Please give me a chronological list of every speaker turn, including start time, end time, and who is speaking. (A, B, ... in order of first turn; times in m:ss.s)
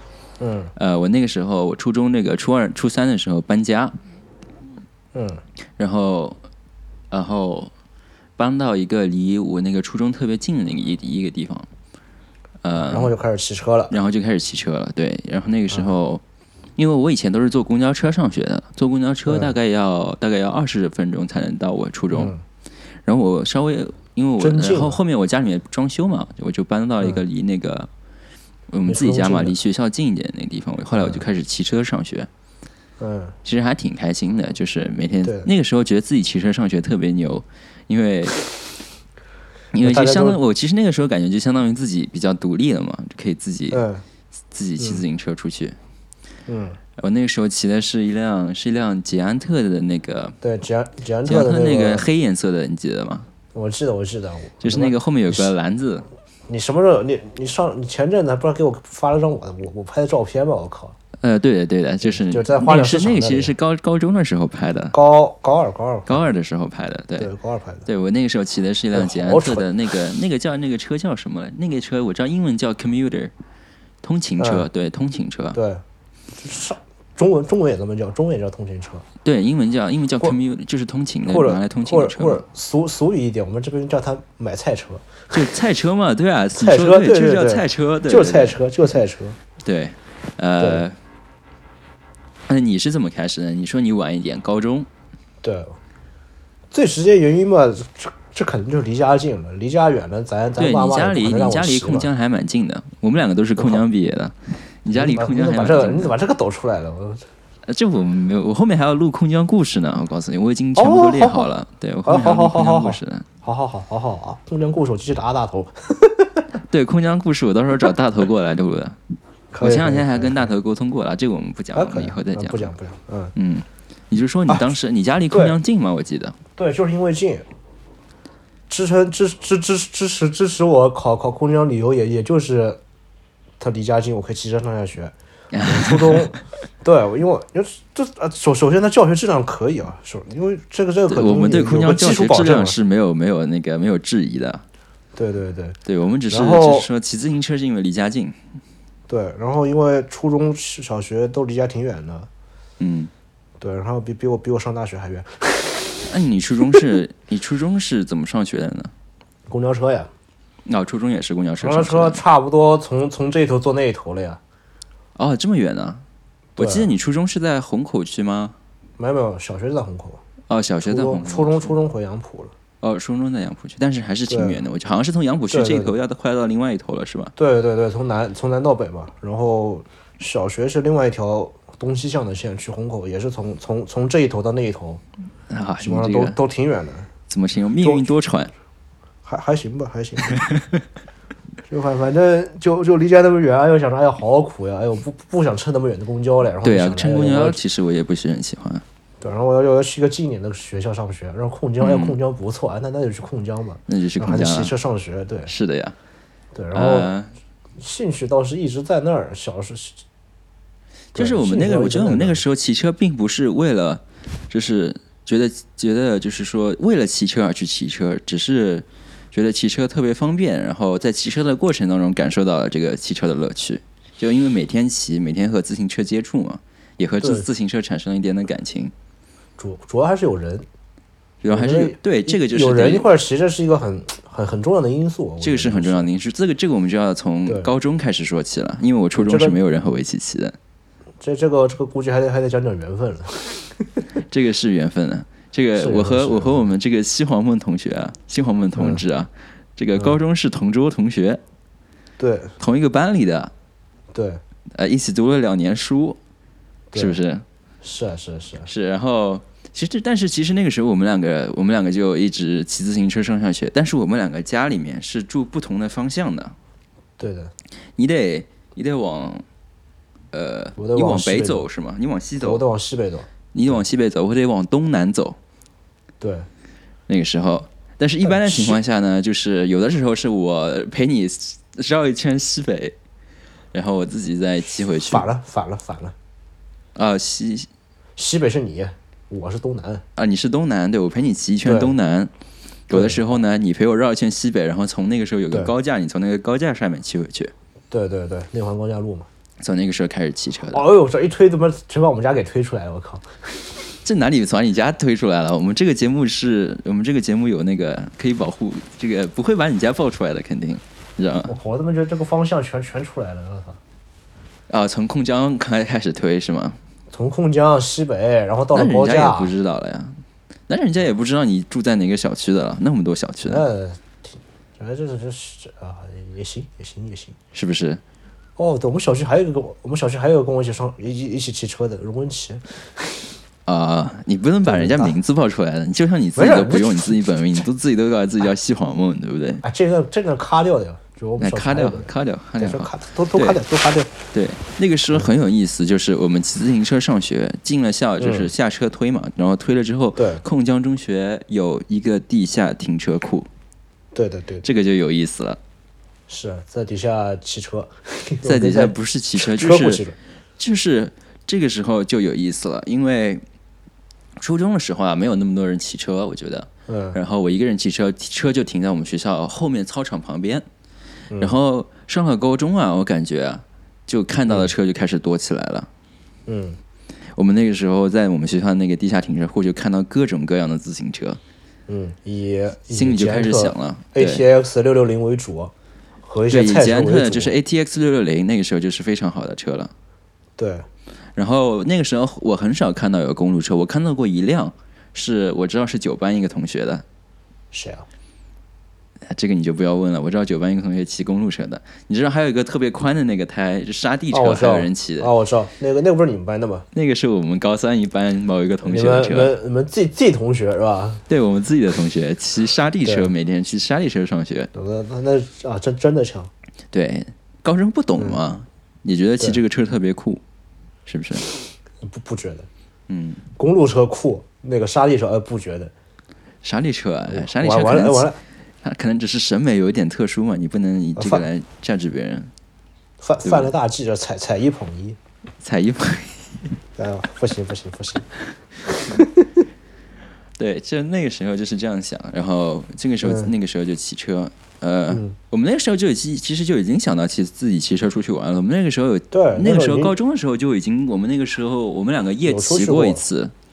0:00.4-0:00.7 A
0:00.8-0:04.0 B
0:05.1-0:05.4 A
0:05.8-0:06.4 B
0:07.1-0:07.7 B
0:08.4-0:11.7 B
0:12.6-0:13.1 B
0:12.8-0:13.9 A
0:13.9-0:16.2 B
0:16.8-0:22.3 B
0:19.3-0:19.5 A
0:22.1-0:22.4 A
0:23.0-0:27.9 B
0:24.4-0:25.0 A
0:28.7-0:32.3 B
0:28.9-0:29.6 A
0:31.0-0:31.2 A
0:33.0-0:33.4 A
0:33.4-0:38.4 B
0:39.7-0:43.8 B
0:39.8-0:40.4 A
0:43.7-0:44.0 A
0:44.5-0:45.8 B
0:46.5-0:46.8 A
0:47.0-0:50.4 B
0:50.4-0:52.1 A
0:51.2-0:53.3 B
0:53.5-0:55.5 A
0:54.6-0:56.1 B
0:56.5-1:01.0 A
1:01.2-1:05.0 B
1:02.0-1:03.5 A
1:04.9-1:06.2 A
1:06.1-1:07.3 B
1:07.2-1:07.9 A
1:07.9-1:13.3 B
1:08.9-1:09.7 A
1:14.0-1:15.6 B
1:14.4-1:14.7 A
1:15.5-1:15.8 A
1:16.4-1:19.0 A
1:19.2-1:22.4 B
1:21.3-1:25.3 A
1:25.3-1:28.6 B
1:26.6-1:29.4 A
1:29.6-1:31.0 B
1:32.5-1:34.9 B
1:35.4-1:35.8 A
1:36.7-1:42.1 A
1:40.6-1:46.1 B
1:43.6-1:43.8 A
1:44.9-1:47.2 A
1:47.7-1:53.3 B
1:50.8-1:51.5 A
1:52.0-1:56.5 A
1:56.7-1:59.0 B
1:59.5-2:00.4 A
1:59.6-2:02.7 B
2:01.7-2:03.3 A
2:03.4-2:06.4 B
2:04.5-2:04.7 A
2:05.3-2:05.6 A
2:06.6-2:07.5 A
2:08.7-2:12.8 A
2:13.6-2:22.8 A
2:15.5-2:16.4 B
2:21.1-2:24.6 B
2:25.2-2:25.8 A
2:25.9-2:28.4 B
2:26.3-2:26.9 A
2:29.1-2:32.3 A
2:32.8-2:33.1 B
2:33.6-2:36.1 A
2:36.1-2:38.9 B
2:39.5-2:40.1 A
2:40.7-2:42.2 B
2:41.6-2:44.4 A
2:45.2-2:46.0 B
2:46.6-2:46.9 A
2:46.6-2:48.6 B
2:49.0-2:50.2 A
2:50.5-2:51.7 B
2:50.8-2:52.5 A
2:52.8-2:57.3 B
2:54.3-2:54.6 A
2:55.5-2:55.9 A
2:57.4-3:05.0 A
3:05.5-3:06.4 B
3:05.8-3:07.1 A
3:07.3-3:08.5 B
3:07.8-3:08.1 A
3:09.3-3:10.4 A
3:10.4-3:10.8 B
3:11.7-3:17.6 A
3:16.6-3:18.8 B
3:19.2-3:25.5 A
3:21.8-3:22.2 B
3:23.9-3:24.7 B
3:25.5-3:26.0 B
3:26.6-3:27.1 A
3:26.7-3:27.3 B
3:27.8-3:30.0 A
3:31.2-3:32.4 A
3:31.2-3:48.9 B
3:47.2-3:47.5 A
3:49.6-3:50.7 A
3:51.4-3:53.1 B
3:51.5-3:56.1 A
3:55.4-4:00.6 B
3:57.5-3:57.7 A
3:59.2-3:59.6 A
4:01.2-4:04.0 A
4:04.3-4:11.4 B
4:05.8-4:06.7 A
4:08.8-4:09.0 A
4:12.2-4:12.5 A
4:12.6-4:13.5 B
4:14.1-4:14.4 A
4:14.8-4:16.2 B
4:16.9-4:17.2 A
4:17.0-4:17.4 B
4:17.8-4:18.7 A
4:18.7-4:26.6 B
4:27.2-4:27.5 A
4:28.0-4:29.4 B
4:30.3-4:32.6 B
4:30.8-4:31.7 A
4:32.4-4:33.3 A
4:33.5-4:35.4 B
4:36.2-4:36.5 A
4:37.1-4:43.0 B
4:38.2-4:38.8 A
4:43.7-4:45.3 B
4:44.9-4:46.2 A
4:47.0-4:47.7 B
4:48.2-4:50.0 A
4:50.2-4:52.3 B
4:51.6-4:51.9 A
4:52.9-4:57.5 B
4:52.9-4:53.4 A
4:57.9-4:59.3 A
4:59.6-5:00.8 B
5:00.7-5:03.8 A
5:04.0-5:11.5 B
5:11.4-5:13.8 A
5:14.7-5:16.8 B
5:17.1-5:19.5 A
5:18.7-5:23.6 B
5:23.5-5:27.4 A
5:27.5-5:28.0 B
5:28.6-5:33.4 A
5:33.7-5:39.6 B
5:34.7-5:35.2 A
5:36.4-5:37.6 A
5:39.6-5:44.1 A
5:41.4-5:43.6 B
5:44.3-5:53.5 B
5:48.2-5:48.5 A
5:50.2-5:50.4 A
5:54.1-5:54.7 A
5:54.6-5:55.6 B
5:56.3-6:00.2 A
5:58.4-6:00.0 B
6:00.6-6:03.4 B
6:04.4-6:10.7 B
6:06.9-6:07.2 A
6:11.3-6:11.6 A
6:11.4-6:15.9 B
6:16.5-6:16.8 A
6:17.4-6:21.4 B
6:21.9-6:25.7 A
6:22.9-6:24.4 B
6:26.2-6:27.5 A
6:26.5-6:29.9 B
6:30.6-6:30.9 A
6:31.4-6:37.0 B
6:37.7-6:38.1 A
6:39.3-6:45.3 B
6:44.3-6:46.9 A
6:46.9-6:49.5 B
6:48.8-6:51.2 A
6:51.3-6:54.7 B
6:53.0-6:53.3 A
6:54.7-6:56.5 A
6:56.9-7:00.4 B
7:01.1-7:01.5 B
7:02.0-7:02.7 A
7:03.1-7:03.4 B
7:03.6-7:05.9 A
7:06.6-7:08.3 B
7:07.3-7:08.4 A
7:08.8-7:12.5 B
7:11.2-7:11.5 A
7:13.2-7:15.2 A
7:15.6-7:16.8 B
7:17.0-7:18.3 A
7:18.8-7:19.6 A
7:20.6-7:33.5 B
7:23.2-7:23.5 A
7:25.1-7:25.4 A
7:29.3-7:30.2 A
7:32.4-7:33.2 A